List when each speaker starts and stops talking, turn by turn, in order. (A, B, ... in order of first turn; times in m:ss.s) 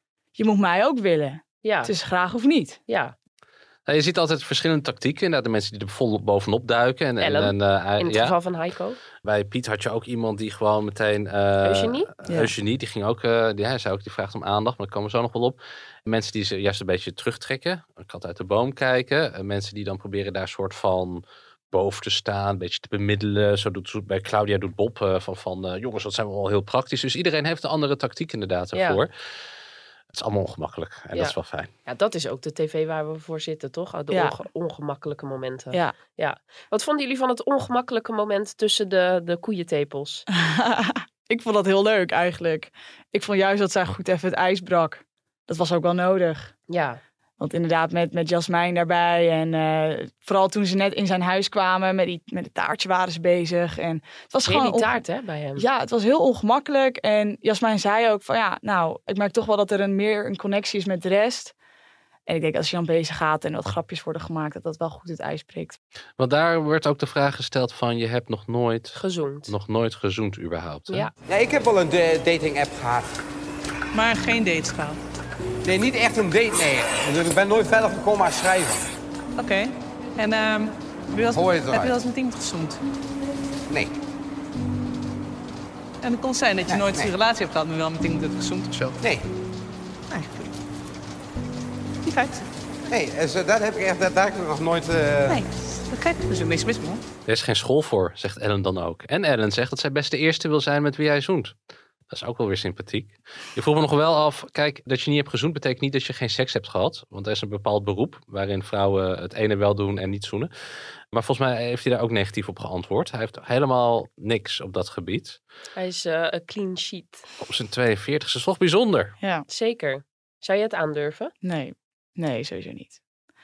0:00.4-0:02.8 A
0:01.6-0:01.9 B
0:02.9-0:03.1 B
0:03.9-0:08.4 C
0:07.2-0:09.0 B
0:09.2-0:29.1 C
0:11.6-0:12.1 B
0:12.3-0:12.5 A
0:28.7-0:29.0 B
0:30.1-0:31.7 C
0:31.1-0:40.2 B
0:40.3-0:46.5 A
0:46.7-0:47.0 B
0:47.4-0:55.0 A
0:54.4-0:55.6 B
0:55.6-1:01.5 A
1:02.3-1:05.8 A
1:06.2-1:11.1 C
1:09.0-1:09.5 B
1:11.3-1:13.2 D
1:15.6-1:18.8 D
1:20.4-1:22.8 E
1:21.3-1:22.0 D
1:26.0-1:28.9 E
1:26.7-1:27.1 D
1:29.0-1:29.3 D
1:32.9-1:35.4 D
1:35.9-1:37.0 E
1:37.2-1:41.5 C
1:42.1-1:50.5 C
1:51.1-1:55.4 C
1:55.7-1:57.2 B
1:57.4-1:59.1 C
1:59.2-1:59.4 A
1:59.5-2:01.3 B
2:01.4-2:03.0 A